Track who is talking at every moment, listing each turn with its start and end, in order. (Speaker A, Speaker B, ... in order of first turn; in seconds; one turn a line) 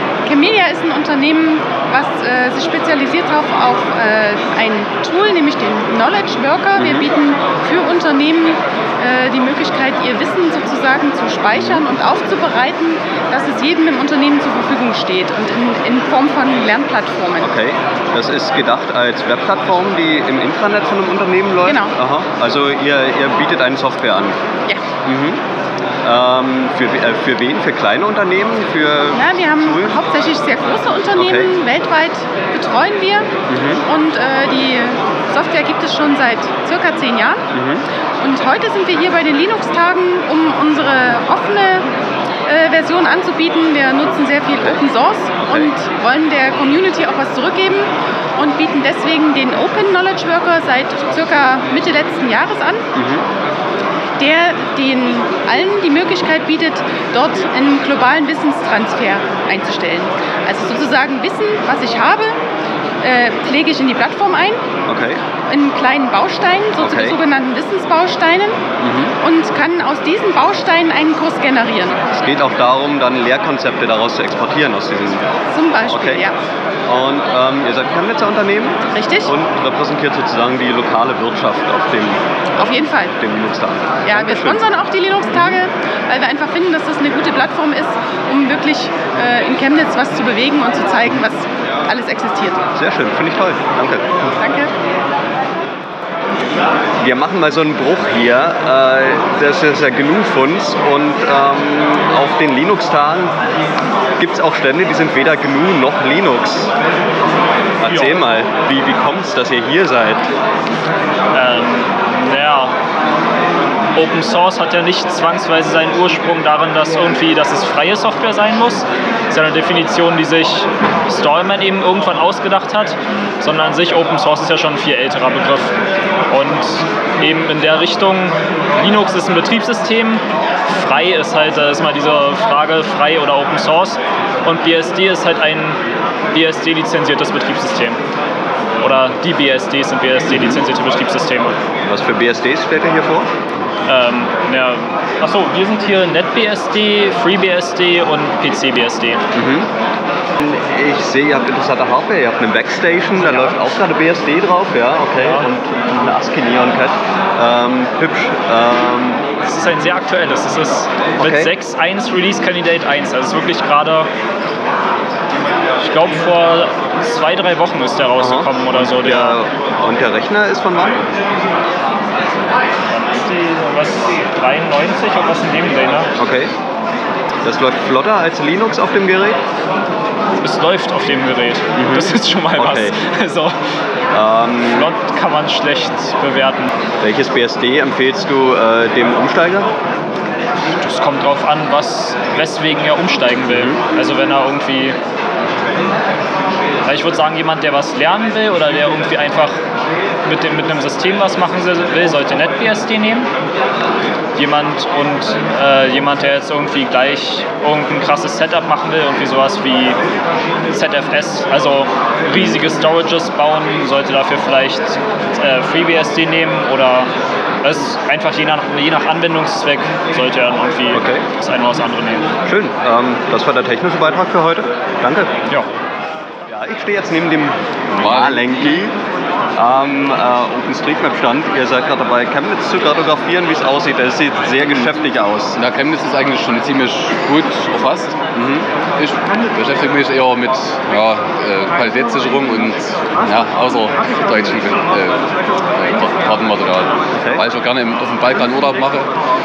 Speaker A: 0.2-17.5
Speaker B: 6.8-7.1
Speaker B: 11.5-11.8
Speaker B: 17.4-24.4
Speaker A: 21.6-21.9
Speaker B: 25.0-25.4
Speaker B: 26.0-30.0
Speaker A: 29.1-33.3
Speaker B: 31.1-31.5
Speaker B: 33.5-33.8
Speaker A: 33.8-37.4
Speaker B: 37.5-37.8
Speaker A: 38.2-41.9
Speaker A: 42.5-52.8
Speaker B: 52.9-53.2
Speaker A: 54.2-62.4
Speaker A: 63.0-64.6
Speaker B: 64.9-65.2
Speaker A: 65.5-68.6
Speaker B: 66.8-67.2
Speaker B: 68.8-69.1
Speaker A: 69.2-72.0
Speaker B: 72.2-75.2
Speaker A: 75.5-76.3
Speaker B: 75.9-76.2
Speaker B: 76.9-82.6
Speaker A: 78.9-79.3
Speaker A: 82.6-83.2
Speaker B: 83.2-84.6
Speaker A: 84.0-92.6
Speaker B: 92.8-94.1
Speaker A: 94.3-94.7
Speaker B: 97.0-103.3
Speaker B: 104.2-106.7
Speaker B: 107.8-110.2
Speaker C: 107.8-108.2
Speaker C: 111.3-112.7
Speaker C: 113.9-125.7
Speaker C: 126.3-135.8
Speaker C: 136.3-138.0
Speaker C: 138.8-141.6
Speaker B: 141.9-143.3
Speaker C: 143.8-149.2
Speaker B: 149.3-149.7
Speaker B: 150.4-159.2
Speaker C: 159.4-164.1
Speaker B: 161.2-161.5
Speaker C: 165.8-169.4
Speaker B: 168.2-171.0
Speaker C: 172.9-176.1
Speaker B: 176.2-176.5
Speaker B: 177.4-179.4
Speaker C: 180.4-183.6
Speaker B: 181.8-182.9
Speaker B: 184.1-184.9
Speaker C: 184.7-186.7
Speaker B: 187.0-189.7
Speaker C: 190.8-194.9
Speaker B: 193.5-193.8
Speaker C: 196.8-199.6
Speaker C: 200.2-203.3
Speaker C: 204.3-210.0
Speaker C: 210.7-217.1
Speaker C: 217.6-222.3
Speaker B: 220.9-221.2
Speaker B: 222.4-225.3
Speaker B: 226.5-228.9
Speaker D: 228.0-228.4
Speaker B: 229.5-235.6
Speaker D: 235.6-238.2
Speaker B: 238.3-238.7
Speaker D: 238.9-249.1
Speaker B: 247.1-247.4